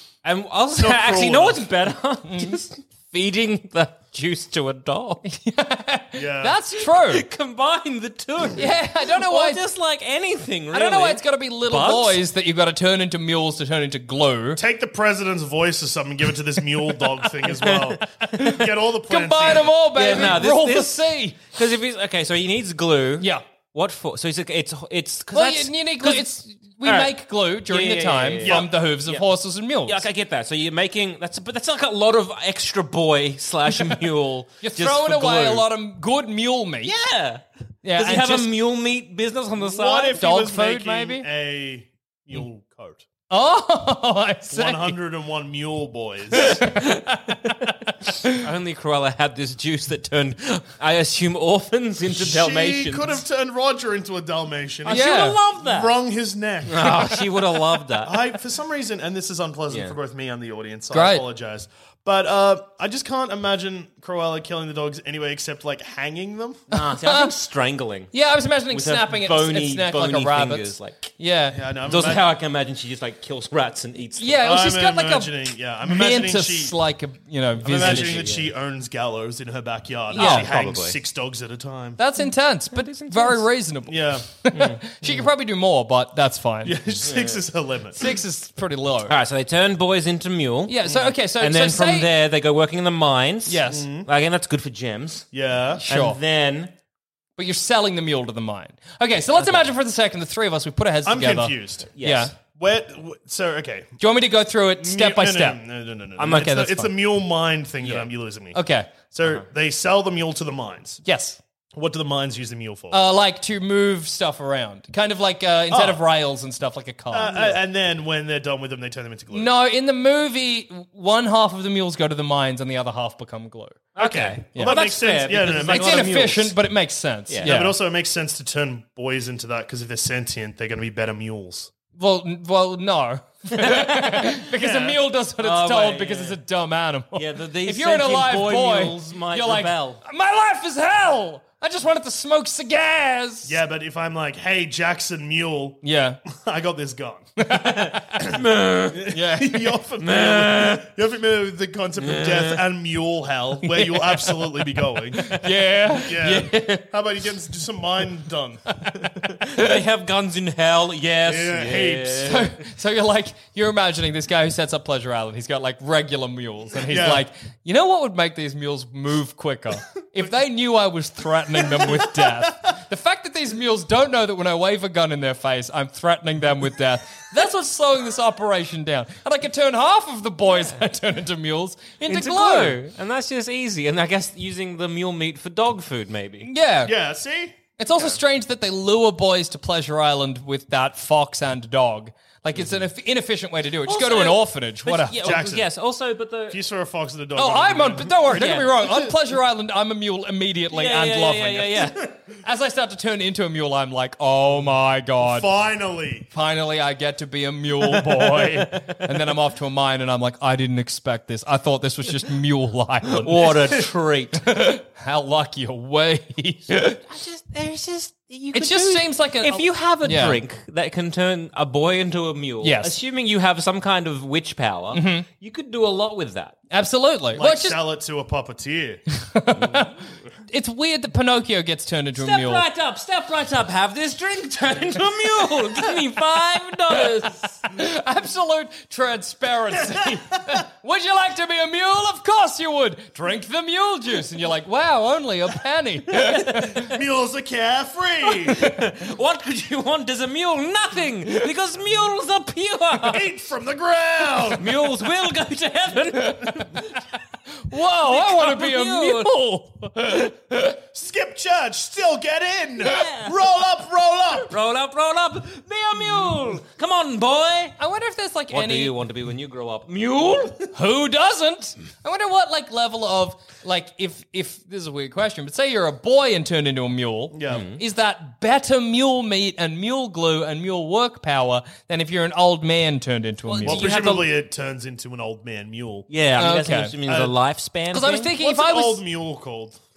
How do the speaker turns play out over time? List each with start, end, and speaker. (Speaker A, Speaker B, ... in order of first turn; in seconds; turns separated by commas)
Speaker A: 0.2-5.2, Speaker B: 0.8-1.6, Speaker C: 2.3-2.6, Speaker C: 5.2-7.2, Speaker B: 6.1-6.6, Speaker A: 6.9-12.2, Speaker C: 8.6-9.6, Speaker C: 10.7-14.6, Speaker B: 14.6-20.3, Speaker A: 17.5-18.0, Speaker C: 18.2-21.4, Speaker A: 19.6-26.3, Speaker C: 25.3-30.0, Speaker A: 26.8-27.1, Speaker A: 27.6-29.3, Speaker B: 28.4-28.7, Speaker A: 29.9-35.7, Speaker C: 34.6-36.9, Speaker A: 36.8-37.4, Speaker C: 37.8-38.5, Speaker A: 37.9-40.2, Speaker B: 39.5-43.0, Speaker C: 40.2-41.2, Speaker C: 43.3-45.0, Speaker B: 44.5-46.6, Speaker C: 46.4-48.4, Speaker A: 48.3-53.2, Speaker B: 52.1-57.1, Speaker A: 54.8-55.9, Speaker C: 54.9-55.4, Speaker A: 56.7-58.2, Speaker B: 58.0-66.6, Speaker A: 59.7-60.0, Speaker C: 60.9-61.2, Speaker C: 66.7-67.3, Speaker A: 66.7-68.1, Speaker C: 68.1-71.6, Speaker A: 68.7-71.1, Speaker B: 71.5-72.2, Speaker A: 71.8-74.4, Speaker C: 74.2-78.2, Speaker B: 74.4-76.8, Speaker B: 77.6-82.0, Speaker A: 77.6-78.5, Speaker C: 80.1-80.5, Speaker A: 80.1-81.0, Speaker C: 82.0-86.8, Speaker A: 82.7-83.5, Speaker B: 83.9-84.2, Speaker A: 84.5-85.1, Speaker B: 86.6-88.0, Speaker A: 87.0-87.4, Speaker C: 88.0-89.1, Speaker A: 89.1-95.3, Speaker C: 90.7-92.1, Speaker C: 93.5-93.8, Speaker B: 93.7-94.1, Speaker B: 95.3-95.8, Speaker C: 95.8-96.2, Speaker A: 95.9-96.7, Speaker C: 97.4-102.3, Speaker A: 99.3-99.7, Speaker B: 101.0-101.9, Speaker A: 102.0-102.3, Speaker B: 102.4-103.9, Speaker C: 104.0-105.6, Speaker B: 104.8-111.0, Speaker A: 106.2-106.9, Speaker A: 107.8-108.1, Speaker C: 108.5-108.9, Speaker C: 111.0-111.4, Speaker B: 111.7-113.0, Speaker C: 112.9-117.5, Speaker B: 115.7-116.0, Speaker B: 117.1-119.5, Speaker C: 119.3-123.9, Speaker A: 124.0-126.5, Speaker B: 124.0-126.3, Speaker C: 124.5-124.8, Speaker C: 125.7-127.8, Speaker A: 127.3-127.5, Speaker B: 127.4-131.7, Speaker C: 132.0-143.6, Speaker A: 133.6-134.4, Speaker B: 134.5-135.0, Speaker A: 135.4-136.4, Speaker A: 137.1-140.0, Speaker B: 143.4-147.3, Speaker C: 145.8-146.2, Speaker C: 147.4-148.0, Speaker A: 148.2-149.1, Speaker B: 148.9-155.4, Speaker C: 149.1-149.7, Speaker A: 150.0-150.9, Speaker A: 152.0-152.6, Speaker C: 153.6-154.6, Speaker C: 155.2-156.8, Speaker B: 156.0-159.2, Speaker A: 159.5-162.5, Speaker B: 161.2-162.3, Speaker C: 162.2-182.8, Speaker B: 166.9-167.2, Speaker B: 171.8-172.5, Speaker A: 182.1-186.5, Speaker C: 186.4-186.9, Speaker B: 186.8-187.6, Speaker C: 187.8-195.3, Speaker A: 193.8-196.6, Speaker B: 195.2-195.7, Speaker B: 196.5-198.4, Speaker C: 197.3-201.9, Speaker A: 198.3-198.9, Speaker A: 200.7-202.1, Speaker C: 202.4-205.5, Speaker B: 205.2-206.3, Speaker C: 206.3-213.5, Speaker A: 208.0-209.0, Speaker A: 213.2-214.4, Speaker C: 214.4-217.0, Speaker A: 216.8-226.6, Speaker C: 218.5-220.4, Speaker C: 222.6-222.9, Speaker C: 224.9-225.2, Speaker C: 226.7-227.8, Speaker B: 227.3-229.0, Speaker C: 229.1-229.9, Speaker A: 229.6-229.9, Speaker C: 230.5-232.6, Speaker A: 232.1-237.6, Speaker C: 237.7-246.7, Speaker A: 246.2-246.8, Speaker B: 246.8-248.6, Speaker A: 248.5-253.2, Speaker B: 253.0-254.8, Speaker A: 254.5-257.0, Speaker C: 256.2-256.7, Speaker C: 257.7-260.8, Speaker A: 258.0-259.3, Speaker B: 260.9-264.5, Speaker A: 262.8-263.5, Speaker A: 264.4-267.8, Speaker C: 267.8-268.9, Speaker A: 268.5-270.7, Speaker C: 270.7-283.9, Speaker B: 277.3-277.6, Speaker A: 277.5-277.8, Speaker A: 283.4-284.3, Speaker B: 283.6-286.1, Speaker A: 286.1-288.3, Speaker C: 286.4-286.9, Speaker B: 287.1-287.3, Speaker C: 287.9-289.0, Speaker B: 288.4-289.8